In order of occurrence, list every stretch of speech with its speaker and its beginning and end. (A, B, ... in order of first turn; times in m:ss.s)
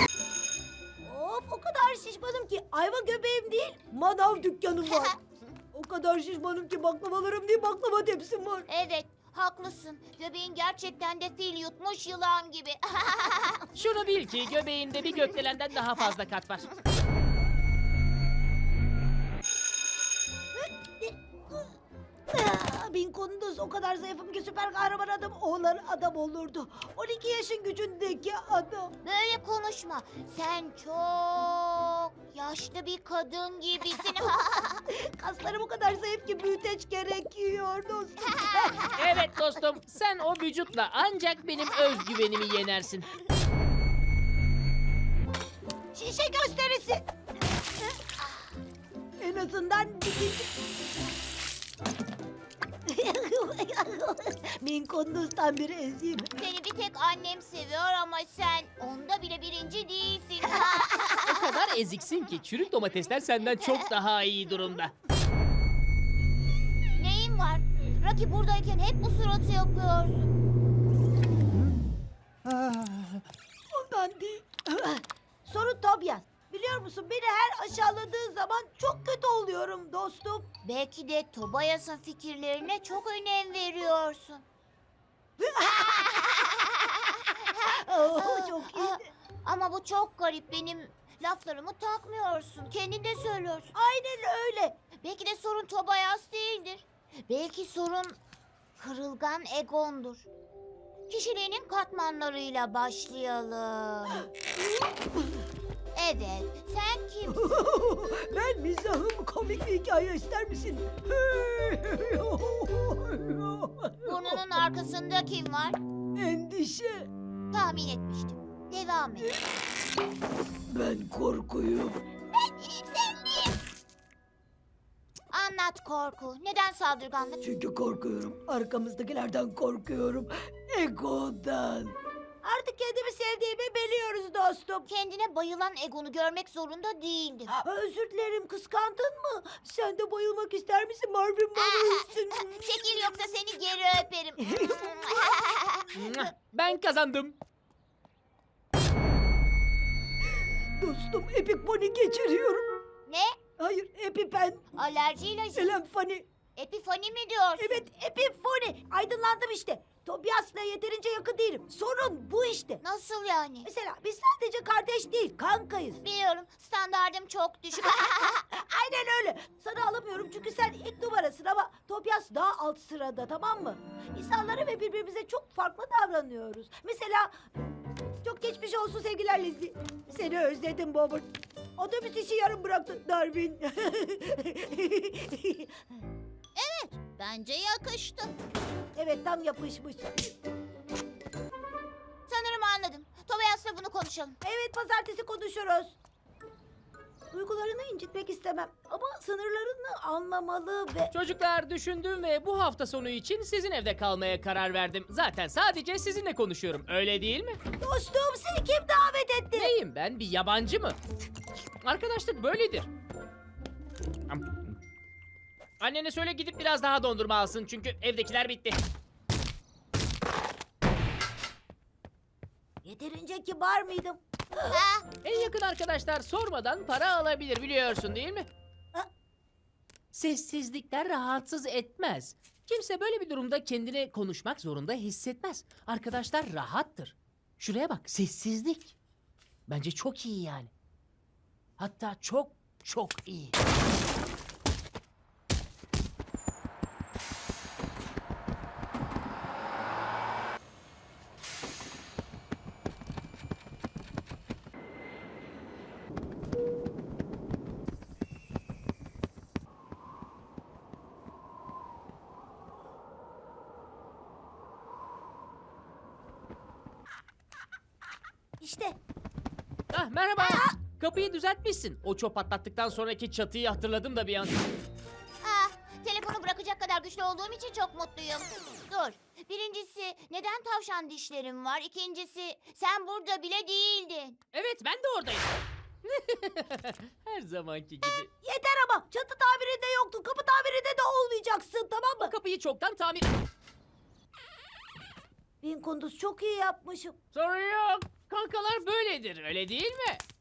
0:01.0-0:05.1 A
0:04.8-0:05.1 B
0:05.7-0:08.7 A
0:08.7-0:13.6 B
0:13.7-0:16.7 C
0:20.6-0:21.6 A
0:22.3-0:28.9 A
0:29.0-0:34.8 B
0:34.9-0:38.8 A
0:39.0-0:43.1 C
0:45.9-0:47.0 A
0:49.2-0:50.5 A
0:52.9-0:56.3 A
0:56.4-1:01.4 B
1:01.3-1:04.9 C
1:07.0-1:10.3 B
1:13.7-1:20.5 A
1:20.6-1:24.4 B
1:25.4-1:26.1 A
1:25.7-1:33.7 B
1:27.7-1:29.0 A
1:33.7-1:34.7 A
1:35.0-1:38.2 B
1:38.8-1:40.2 B
1:41.1-1:44.2 B
1:45.9-1:47.6 B
1:47.4-1:54.4 A
1:54.0-1:55.8 B
1:56.2-1:57.1 A
1:57.5-1:59.3 B
2:00.7-2:02.0 A
2:05.3-2:07.4 B
2:07.4-2:14.9 A
2:14.9-2:17.5 B
2:17.5-2:22.8 A
2:21.6-2:22.0 B
2:22.6-2:25.8 B
2:24.4-2:24.9 A
2:26.0-2:27.4 C
2:30.8-2:32.6 A
2:33.1-2:33.4 B
2:33.6-2:34.6 A
2:34.7-2:35.7 B
2:35.5-2:36.2 A
2:36.6-2:37.8 B
2:37.6-2:42.8 A
2:42.8-2:43.7 B
2:43.6-2:46.0 A
2:46.0-2:48.4 B
2:47.9-2:57.4 A
2:58.2-3:05.7 A
3:06.6-3:08.3 B
3:09.0-3:10.3 A
3:12.3-3:14.4 B
3:14.4-3:16.0 A
3:17.3-3:21.1 A
3:21.1-3:27.6 C
3:27.8-3:29.7 A
3:29.5-3:31.0 C
3:31.8-3:32.9 C
3:34.3-3:34.6 C
3:35.8-3:38.8 C
3:42.8-3:44.8 A
3:44.7-3:45.1 B
3:45.2-3:48.5 C
3:50.1-3:58.9 C
3:59.7-4:00.7 C
4:01.8-4:03.5 C
4:28.6-4:29.0 A
4:29.9-4:34.6 C
4:30.4-4:30.7 A
4:35.4-4:44.4 B
4:44.5-4:45.5 C
4:46.0-4:48.3 C
4:48.4-4:52.3 A
4:52.2-4:53.3 C
4:55.6-4:57.2 A
4:57.3-5:00.2 C